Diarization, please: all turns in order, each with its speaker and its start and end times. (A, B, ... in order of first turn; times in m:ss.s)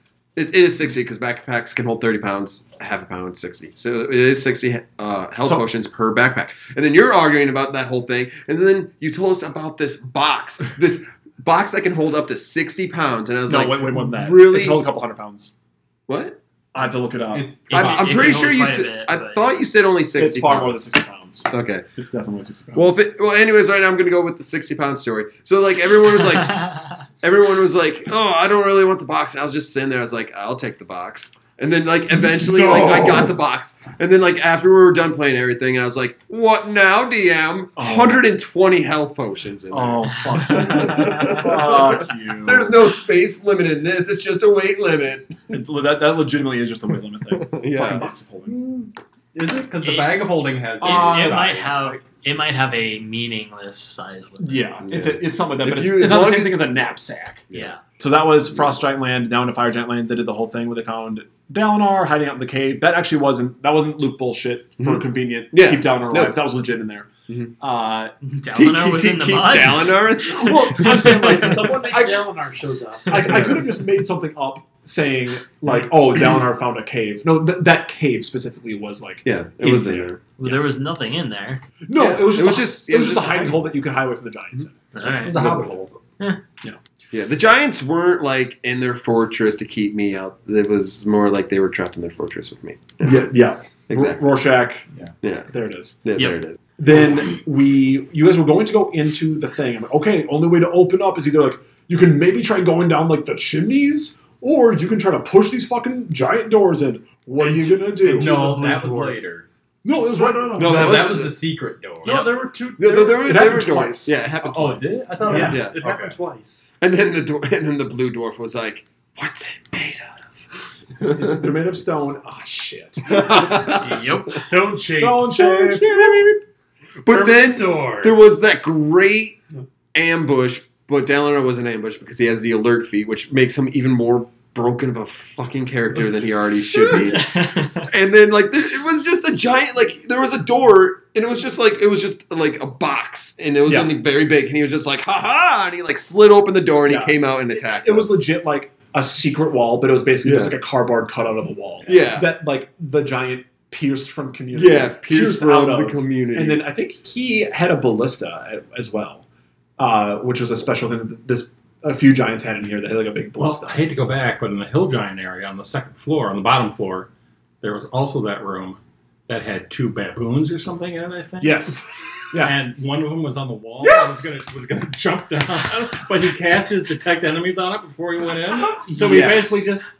0:00.4-0:14.8 A
0:13.5-0:15.5 B
0:16.1-0:16.4 A
0:16.7-0:17.4 B
0:17.3-0:18.4 C
0:17.7-0:19.6 D
0:17.7-0:20.8 A
0:20.2-0:22.9 B
0:21.5-0:21.8 A
0:22.7-0:45.6 A
0:26.4-0:26.9 D
0:32.1-0:33.4 B
0:37.8-0:38.3 B
0:39.7-0:42.8 B
0:45.5-0:48.6 B
0:47.3-0:48.1 A
0:48.5-0:51.9 C
0:49.8-0:50.2 D
0:50.8-0:52.0 B
0:50.8-0:54.6 D
0:54.4-1:08.1 B
0:54.8-0:56.8 A
0:57.5-0:57.7 A
0:57.5-0:57.8 D
1:04.8-1:06.4 A
1:07.3-1:07.5 A
1:08.2-1:11.5 D
1:08.5-1:10.9 A
1:10.2-1:12.3 B
1:11.1-1:13.6 E
1:13.1-1:20.1 B
1:13.3-1:13.6 A
1:19.2-1:20.6 A
1:20.4-1:21.6 D
1:21.9-1:25.8 B
1:22.0-1:23.7 A
1:24.9-1:25.4 D
1:25.2-1:25.8 C
1:25.3-1:25.8 F
1:27.1-1:33.3 A
1:33.0-1:34.9 B
1:33.9-1:34.2 A
1:35.2-1:35.5 A
1:35.5-1:36.0 B
1:36.0-1:37.3 A
1:36.8-1:48.4 B
1:47.4-1:49.2 E
1:48.0-1:49.4 C
1:49.8-1:51.2 B
1:50.0-1:51.1 E
1:50.6-1:51.4 A
1:50.6-1:52.2 C
1:52.0-1:53.5 E
1:52.8-1:55.8 A
1:53.1-1:54.2 B
1:54.4-1:56.1 C
1:55.2-1:56.6 E
1:55.2-1:55.6 B
1:56.8-2:00.3 A
2:00.9-2:01.4 A
2:01.0-2:04.0 B
2:03.1-2:03.8 A
2:03.7-2:04.5 D
2:04.3-2:05.4 E
2:04.8-2:06.4 B
2:07.0-2:09.4 A
2:07.1-2:08.2 E
2:09.9-2:17.3 A
2:16.8-2:17.9 D
2:17.8-2:28.2 A
2:23.6-2:23.9 B
2:26.8-2:39.2 B
2:30.2-2:30.5 A
2:31.8-2:32.3 A
2:34.5-2:36.6 A
2:39.8-2:44.0 B
2:43.4-2:47.1 F
2:47.6-2:51.8 F
2:51.4-2:52.6 B
2:52.4-2:59.8 F
2:58.7-2:59.7 B